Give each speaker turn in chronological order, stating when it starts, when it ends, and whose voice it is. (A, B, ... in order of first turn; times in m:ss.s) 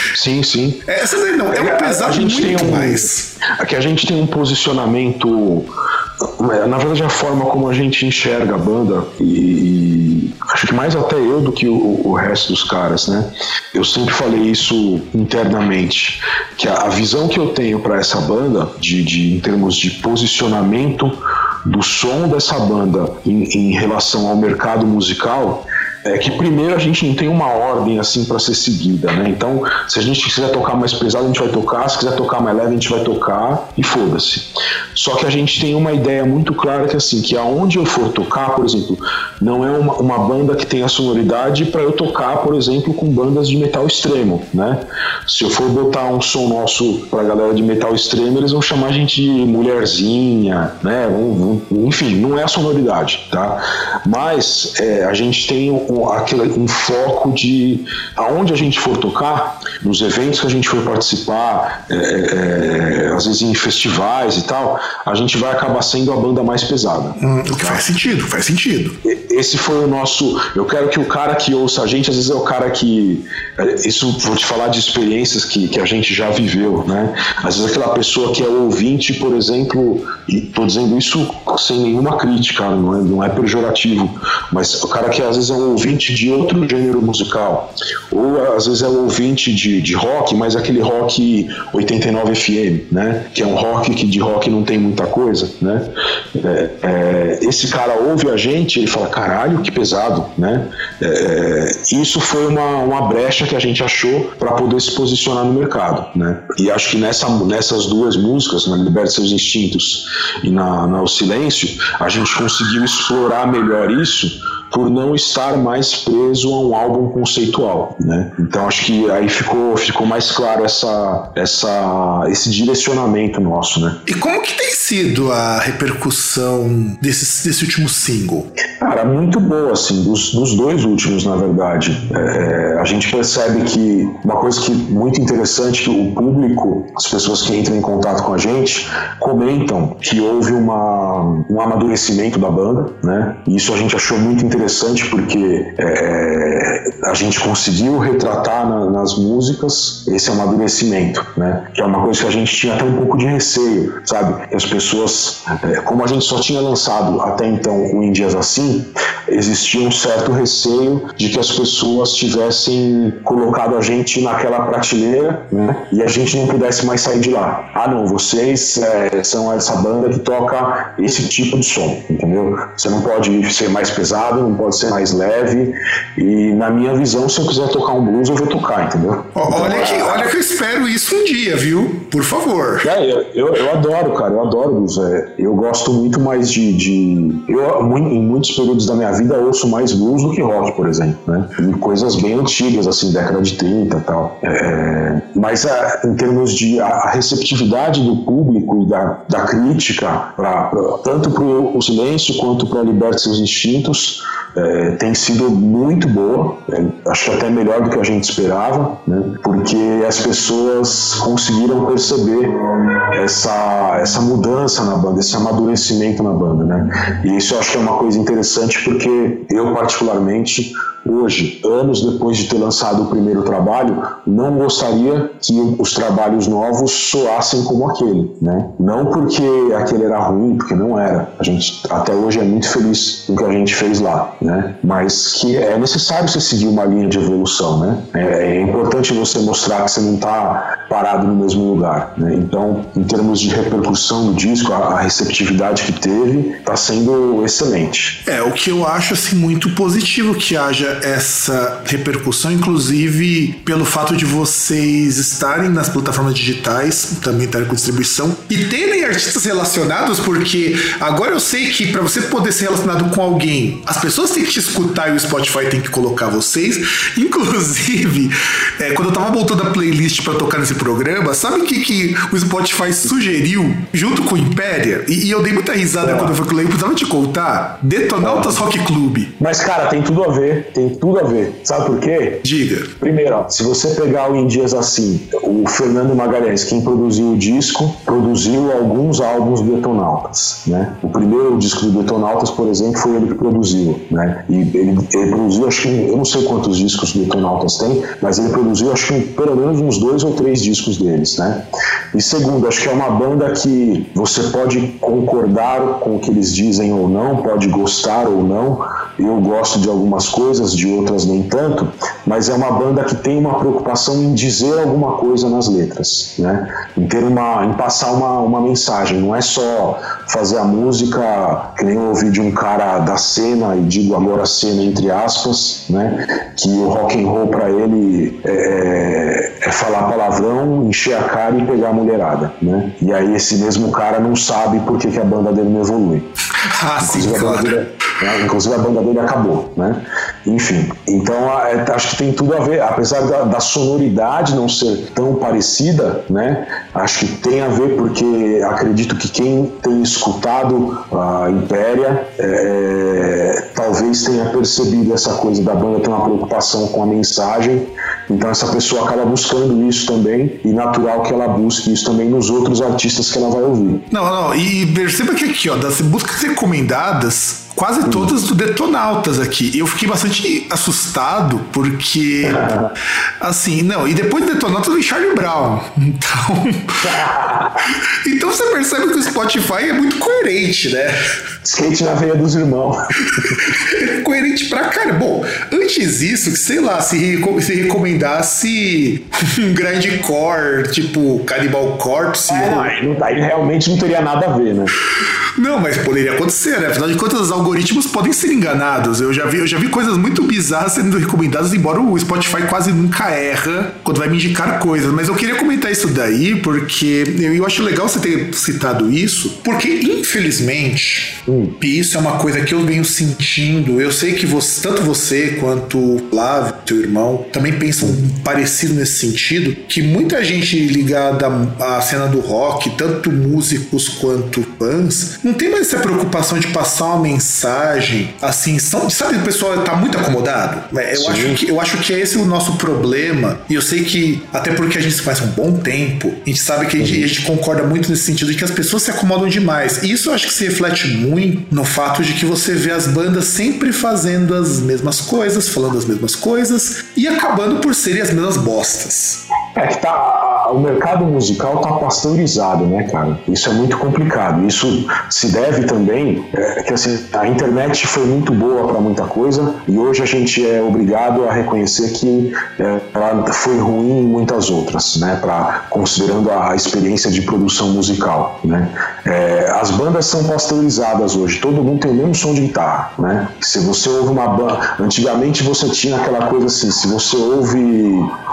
0:00.1-0:00.8 A
0:00.9-0:03.3 B
0:01.5-0:05.7 A
0:06.2-1:07.8 A
1:07.2-1:09.0 B
1:09.0-2:04.0 A
2:04.1-2:08.5 B
2:08.8-3:00.3 A
2:59.4-3:02.9 B
3:02.8-3:32.6 A
3:33.1-4:08.2 A
4:08.2-4:39.3 B
4:36.0-4:36.4 A
4:38.2-4:38.6 A
4:39.4-4:42.4 A
4:42.4-4:42.9 B
4:43.0-5:36.3 A
5:36.6-5:37.8 B
5:37.0-6:04.0 A
6:04.1-6:12.7 B
6:08.0-6:08.3 A
6:12.5-6:12.9 A
6:13.4-6:17.3 B
6:17.0-6:17.8 A
6:17.8-6:21.2 B
6:21.6-6:23.6 A
6:23.3-6:32.9 B
6:32.5-6:34.9 A
6:35.6-7:29.4 B
6:51.5-6:51.7 A
7:11.1-7:11.6 A
7:17.0-7:17.3 A
7:29.8-7:58.3 A